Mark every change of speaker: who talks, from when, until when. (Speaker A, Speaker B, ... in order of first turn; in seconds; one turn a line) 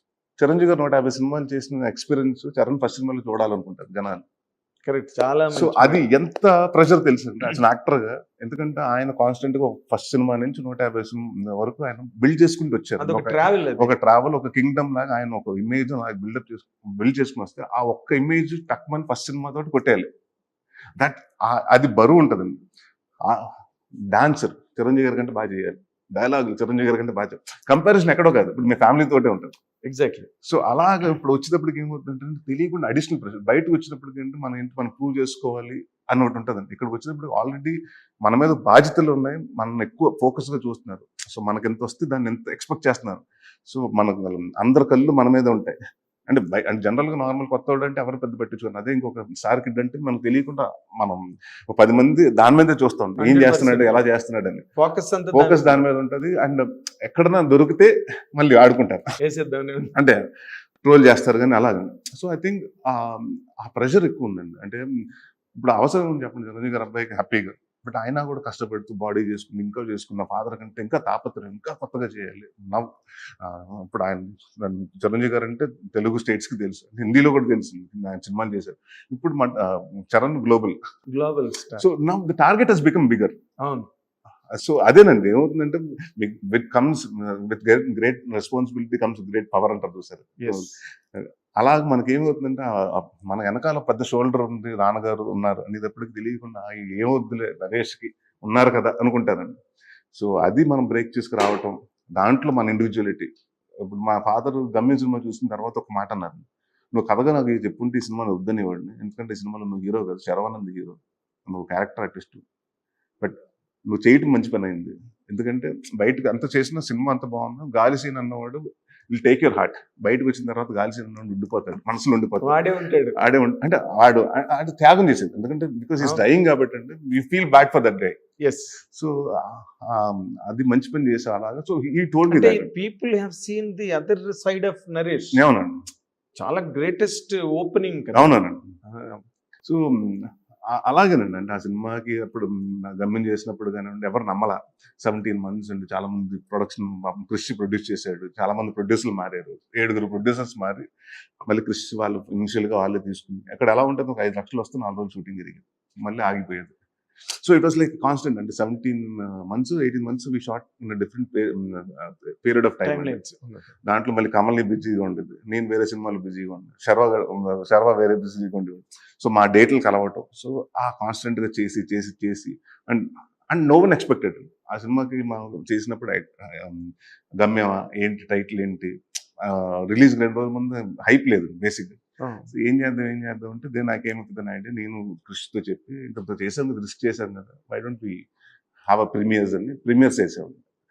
Speaker A: 0.4-4.2
Speaker B: 4.9-6.0
Speaker A: 5.5-20.1
Speaker B: 13.0-13.9
Speaker A: 21.0-22.6
Speaker A: 23.2-23.6
Speaker A: 24.1-29.5
Speaker B: 29.9-30.3
Speaker A: 30.4-45.8
Speaker A: 46.3-51.2
Speaker A: 51.7-54.6
Speaker B: 53.2-54.0
Speaker B: 54.8-55.8
Speaker A: 55.3-59.2
Speaker B: 59.2-59.9
Speaker A: 59.9-60.2
Speaker A: 60.8-64.8
Speaker A: 65.6-80.8
Speaker B: 81.1-81.8
Speaker A: 81.8-83.4
Speaker B: 83.6-83.9
Speaker A: 84.5-99.6
Speaker B: 90.4-90.7
Speaker A: 100.1-103.3
Speaker A: 103.8-112.4
Speaker A: 113.9-128.2
Speaker B: 122.4-123.2
Speaker B: 126.0-126.2
Speaker B: 128.4-128.8
Speaker A: 128.9-132.7
Speaker B: 132.3-135.4
Speaker A: 135.3-135.8
Speaker B: 136.4-138.3
Speaker A: 138.1-138.7
Speaker B: 138.9-139.2
Speaker A: 139.6-150.9
Speaker A: 151.5-156.7
Speaker A: 157.3-163.2
Speaker B: 162.8-163.7
Speaker A: 163.9-188.2
Speaker B: 182.2-182.5
Speaker A: 188.9-190.7